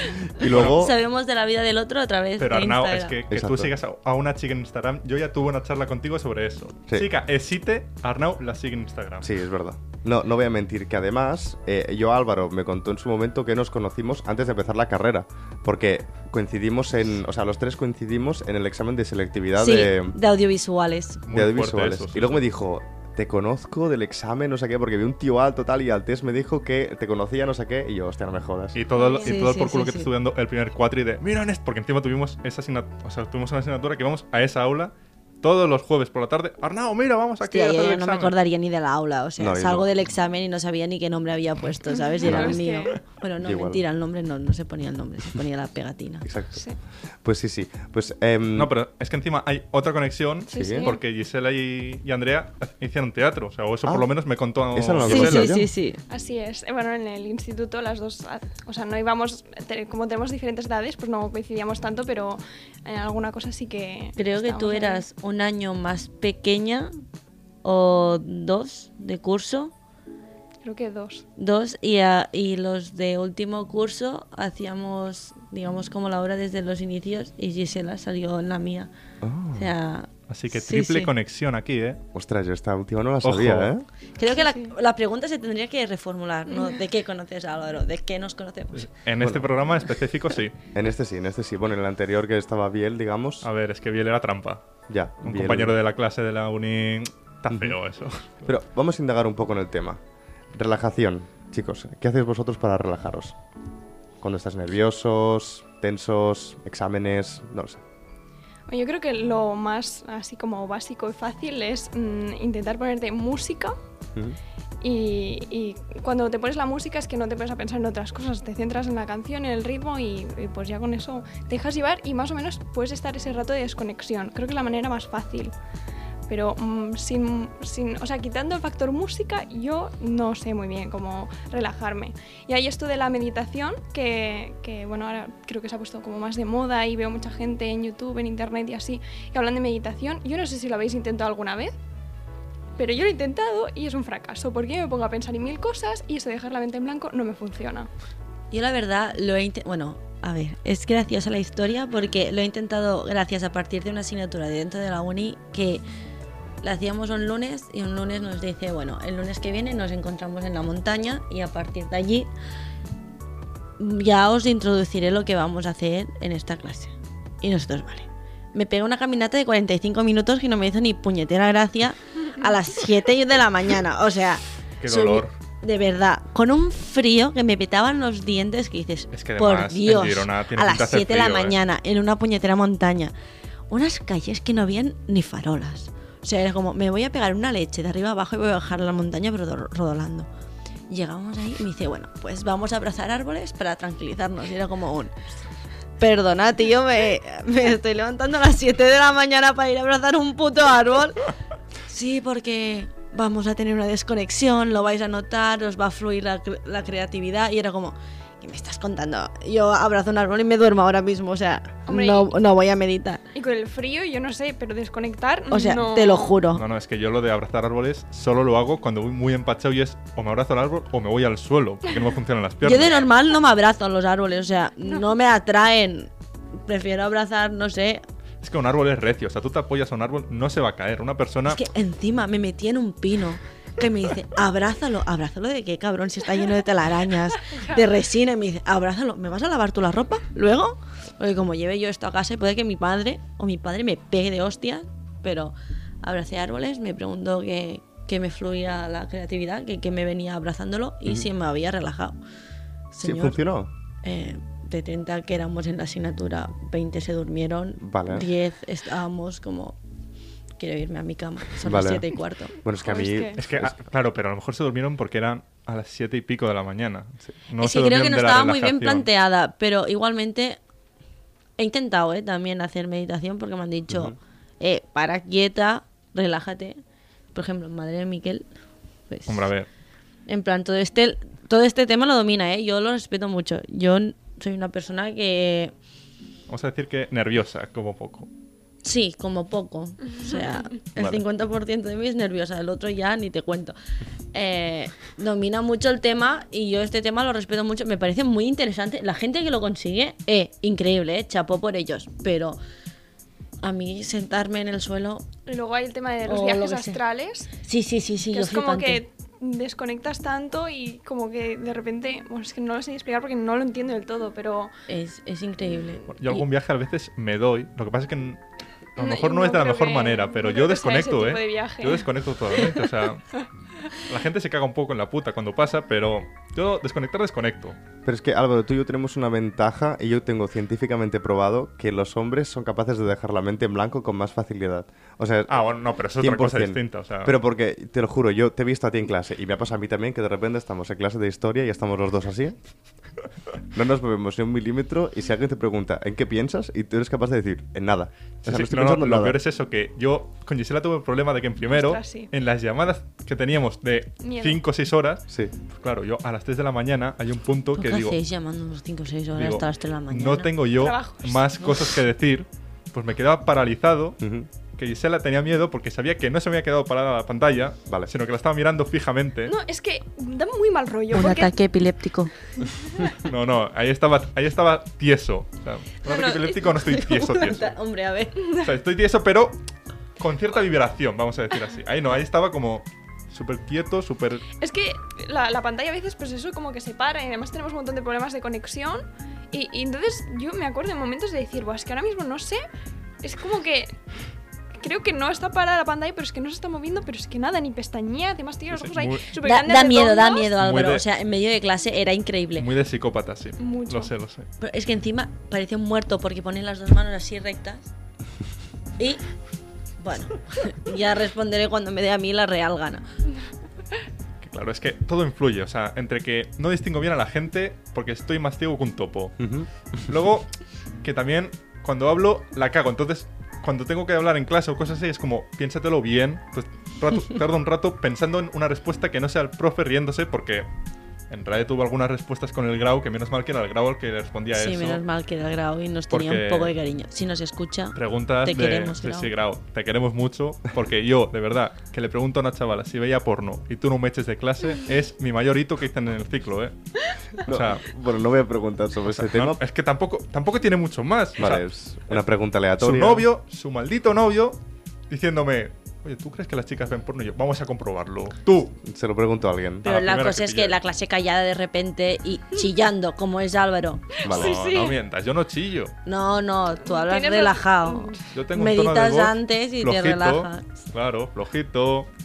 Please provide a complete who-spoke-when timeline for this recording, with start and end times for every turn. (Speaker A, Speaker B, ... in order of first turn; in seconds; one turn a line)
Speaker A: 0.2-0.9
Speaker B: 0.4-0.9
Speaker C: 0.4-3.1
Speaker B: 2.4-9.3
Speaker A: 3.3-3.7
Speaker A: 9.2-20.2
Speaker C: 19.6-21.2
Speaker B: 21.2-22.4
Speaker A: 21.3-28.8
Speaker B: 28.7-38.3
Speaker D: 28.9-29.3
Speaker C: 29.2-30.1
Speaker C: 37.4-46.2
Speaker A: 39.4-39.9
Speaker D: 42.0-43.0
Speaker A: 42.2-42.6
Speaker A: 43.4-43.8
Speaker A: 46.2-46.6
Speaker A: 47.2-48.7
Speaker B: 48.5-55.5
Speaker D: 50.5-51.0
Speaker A: 50.5-50.9
Speaker A: 54.7-55.7
Speaker C: 55.0-56.0
Speaker D: 56.1-65.0
Speaker C: 64.2-66.9
Speaker C: 67.6-69.7
Speaker D: 70.6-71.2
Speaker C: 71.4-78.9
Speaker A: 79.2-79.7
Speaker C: 79.5-81.1
Speaker B: 80.3-82.0
Speaker A: 82.1-83.9
Speaker B: 83.2-83.7
Speaker C: 84.2-88.9
Speaker D: 84.3-84.7
Speaker B: 88.7-90.5
Speaker A: 89.2-89.5
Speaker A: 90.7-93.5
Speaker B: 93.4-94.6
Speaker A: 94.9-95.7
Speaker B: 95.2-98.5
Speaker A: 97.5-97.7
Speaker A: 98.4-100.0
Speaker A: 100.5-103.3
Speaker A: 104.2-107.8
Speaker D: 108.7-113.8
Speaker D: 114.8-125.5
Speaker D: 126.3-141.7
Speaker D: 142.8-147.9
Speaker C: 148.5-155.8
Speaker C: 156.6-162.3
Speaker C: 163.8-183.1
Speaker B: 174.8-175.3
Speaker B: 179.1-181.6
Speaker C: 183.7-190.3
Speaker C: 190.9-195.1
Speaker C: 196.0-201.2
Speaker C: 201.8-213.2
Speaker D: 211.9-212.3
Speaker D: 213.3-216.3
Speaker C: 215.5-216.6
Speaker B: 216.5-223.0
Speaker C: 222.6-226.1
Speaker C: 226.6-228.0
Speaker B: 228.4-231.6
Speaker C: 231.5-252.2
Speaker C: 252.9-253.4
Speaker A: 253.0-253.7
Speaker C: 254.0-259.8
Speaker A: 257.8-258.3
Speaker C: 260.6-262.6
Speaker A: 261.6-262.0
Speaker A: 262.6-263.8
Speaker D: 262.8-263.4
Speaker B: 263.4-269.1
Speaker C: 267.6-270.6
Speaker C: 271.6-276.8
Speaker A: 273.9-274.1
Speaker C: 277.3-278.5
Speaker C: 279.1-279.5
Speaker B: 279.3-279.7
Speaker C: 280.3-285.7
Speaker B: 286.5-288.3
Speaker C: 288.8-293.8
Speaker A: 290.9-291.2
Speaker C: 294.3-302.6
Speaker C: 303.6-305.2
Speaker D: 305.4-307.5
Speaker C: 306.2-307.0
Speaker C: 307.6-309.0
Speaker D: 308.3-314.7
Speaker C: 314.9-316.4
Speaker B: 316.1-318.4
Speaker B: 318.9-323.4
Speaker D: 319.0-322.8
Speaker B: 324.0-327.8
Speaker A: 328.0-335.6
Speaker B: 335.5-337.3
Speaker A: 336.2-342.6
Speaker A: 343.7-349.4
Speaker B: 348.4-358.2
Speaker D: 351.7-352.3
Speaker D: 354.2-354.6
Speaker C: 357.7-360.5
Speaker B: 359.3-364.2
Speaker D: 360.8-361.4
Speaker A: 364.2-364.5
Speaker B: 364.8-369.5
Speaker D: 369.4-371.5
Speaker C: 371.1-372.3
Speaker B: 373.1-377.7
Speaker D: 376.1-376.6
Speaker C: 376.5-378.4
Speaker D: 378.4-378.7
Speaker B: 378.5-379.6
Speaker B: 380.2-384.5
Speaker D: 384.6-392.6
Speaker D: 393.2-393.9
Speaker D: 394.8-400.5
Speaker B: 398.7-399.2
Speaker C: 399.4-402.7
Speaker B: 400.6-401.0
Speaker B: 402.6-404.5
Speaker D: 403.6-404.1
Speaker C: 404.6-407.9
Speaker C: 409.0-409.2
Speaker C: 410.0-413.0
Speaker B: 414.4-419.4
Speaker A: 419.4-419.7
Speaker B: 420.1-420.5
Speaker B: 421.0-430.7
Speaker B: 431.3-435.0
Speaker C: 434.5-439.3
Speaker B: 436.1-436.7
Speaker B: 437.9-446.7
Speaker B: 447.4-447.8
Speaker A: 447.4-449.6
Speaker B: 449.1-452.2
Speaker A: 451.4-453.3
Speaker B: 452.8-454.6
Speaker B: 455.1-458.8
Speaker A: 458.8-459.9
Speaker C: 459.8-464.1
Speaker B: 459.8-460.8
Speaker D: 464.1-465.0
Speaker A: 464.2-464.6
Speaker B: 464.2-465.9
Speaker C: 466.1-470.6
Speaker D: 466.9-468.3
Speaker B: 468.3-472.1